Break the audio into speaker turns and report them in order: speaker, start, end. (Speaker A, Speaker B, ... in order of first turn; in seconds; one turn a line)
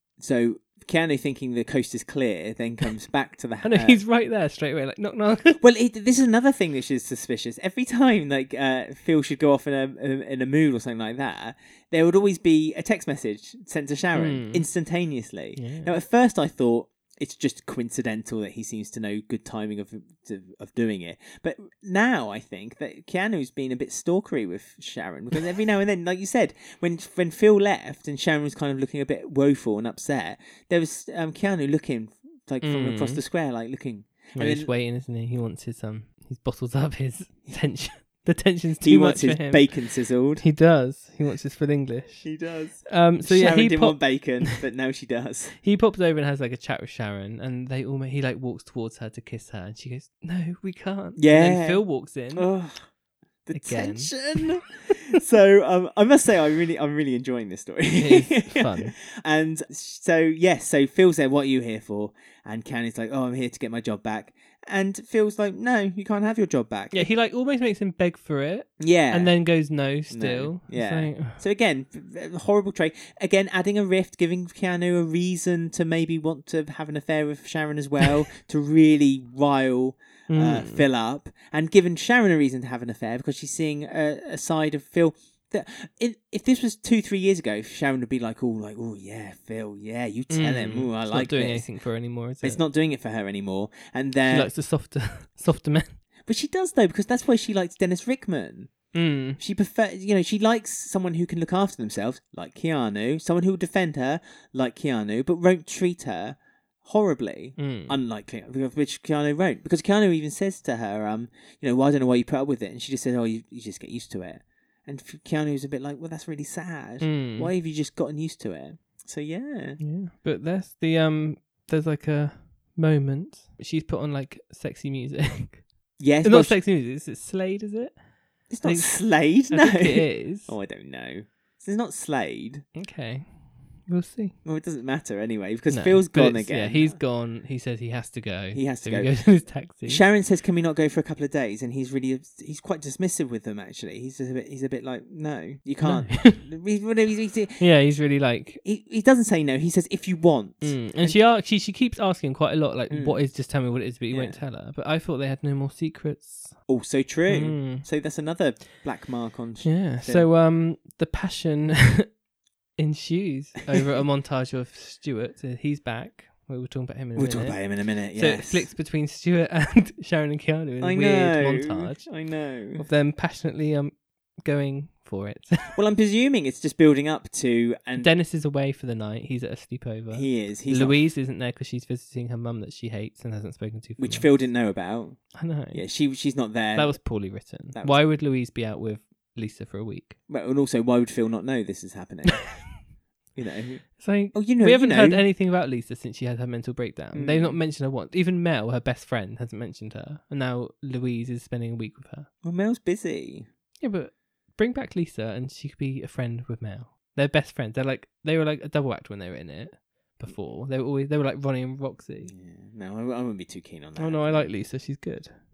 Speaker A: 0.2-4.0
Speaker B: 3.6-5.6
Speaker A: 5.6-34.7
Speaker B: 14.1-14.7
Speaker B: 15.6-15.9
Speaker B: 32.6-33.2
Speaker B: 34.4-39.7
Speaker A: 38.8-40.4
Speaker B: 40.4-42.3
Speaker A: 42.2-45.5
Speaker B: 42.9-44.0
Speaker B: 45.6-52.5
Speaker A: 51.2-51.8
Speaker A: 52.3-52.8
Speaker A: 53.5-67.1
Speaker B: 53.5-54.5
Speaker B: 58.0-58.9
Speaker B: 66.9-71.4
Speaker A: 68.8-69.3
Speaker A: 70.1-91.7
Speaker B: 80.3-80.8
Speaker B: 90.3-92.6
Speaker A: 92.4-94.5
Speaker B: 94.3-96.0
Speaker A: 96.2-98.7
Speaker B: 98.9-99.4
Speaker A: 99.4-119.8
Speaker B: 107.6-108.0
Speaker B: 117.0-117.5
Speaker B: 119.8-125.7
Speaker A: 126.0-126.6
Speaker B: 126.2-128.0
Speaker A: 128.5-132.6
Speaker B: 128.6-130.5
Speaker B: 132.7-134.4
Speaker A: 134.4-137.0
Speaker B: 135.7-140.0
Speaker A: 138.5-139.2
Speaker A: 139.8-147.6
Speaker B: 145.8-146.4
Speaker B: 147.6-148.6
Speaker A: 148.6-151.2
Speaker B: 150.6-156.6
Speaker A: 152.9-153.2
Speaker A: 154.1-154.4
Speaker A: 156.7-160.3
Speaker B: 157.3-157.9
Speaker B: 159.6-162.1
Speaker B: 162.8-172.1
Speaker A: 167.2-168.7
Speaker A: 170.8-172.8
Speaker B: 172.8-175.8
Speaker A: 175.7-178.1
Speaker B: 178.0-184.5
Speaker A: 180.1-181.0
Speaker A: 184.0-187.0
Speaker B: 185.3-185.8
Speaker B: 186.7-190.2
Speaker A: 187.7-188.0
Speaker A: 190.3-192.5
Speaker A: 193.3-195.2
Speaker B: 194.0-202.3
Speaker A: 197.1-197.6
Speaker A: 202.4-203.5
Speaker B: 203.8-212.3
Speaker A: 212.2-214.5
Speaker B: 214.0-215.3